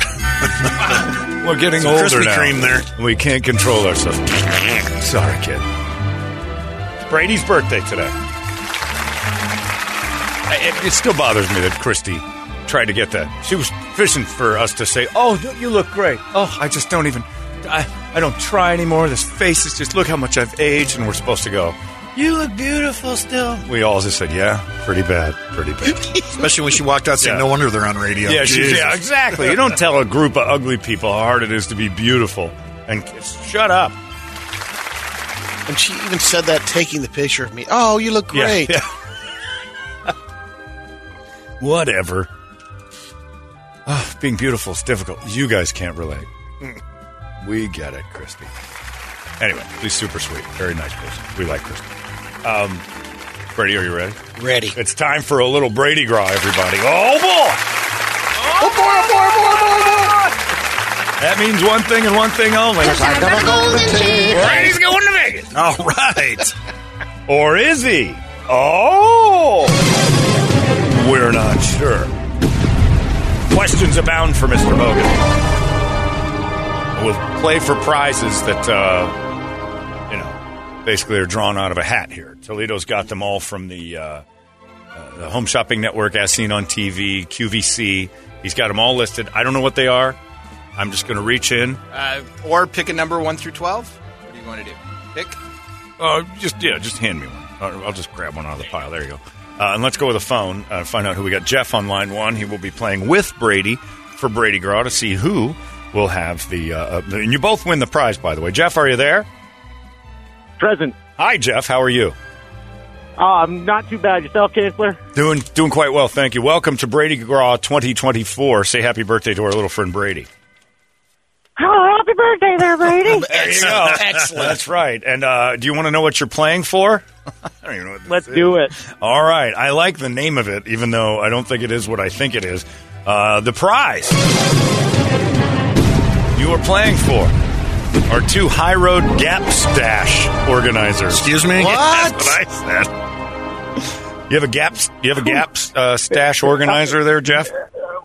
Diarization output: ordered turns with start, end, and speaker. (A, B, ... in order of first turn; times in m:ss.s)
0:00.6-0:01.1 A
0:00.9-0:05.6 B
0:01.8-0:02.9 A
0:07.0-0:08.2 B
0:10.5-0:26.3 B
0:26.3-0:29.6 A
0:27.2-0:27.4 B
0:28.2-0:34.0 B
0:35.7-0:38.8 C
0:38.3-0:38.9 B
0:41.6-0:42.3 B
0:43.9-0:46.7 B
0:47.4-0:48.5 B
0:49.4-0:51.9 B
0:52.4-0:52.8 B
0:53.5-0:54.2 B
0:54.3-0:54.8 C
0:54.7-0:57.6 B
0:58.6-1:00.1 A
0:58.8-1:00.1 C
1:01.2-1:03.4 B
1:02.8-1:04.6 C
1:04.3-1:05.5 B
1:05.5-1:06.5 A
1:07.3-1:09.8 B
1:10.9-1:12.1 B
1:13.5-1:15.3 B
1:16.9-1:19.2 B
1:20.1-1:24.2 B
1:24.9-1:30.2 B
1:30.8-1:31.8 B
1:31.9-1:35.4 D
1:36.0-1:49.3 B
1:50.6-1:50.9 E
1:51.2-1:52.1 B
1:53.2-1:55.0 E
1:55.1-2:00.3 B
2:01.6-2:03.3 E
2:03.0-2:04.6 C
2:03.2-2:07.0 B
2:07.6-2:14.2 B
2:08.1-2:08.7 E
2:16.3-2:17.3 B
2:18.1-2:22.9 B
2:21.1-2:21.9 A
2:21.6-2:22.4 C
2:24.3-2:27.5 B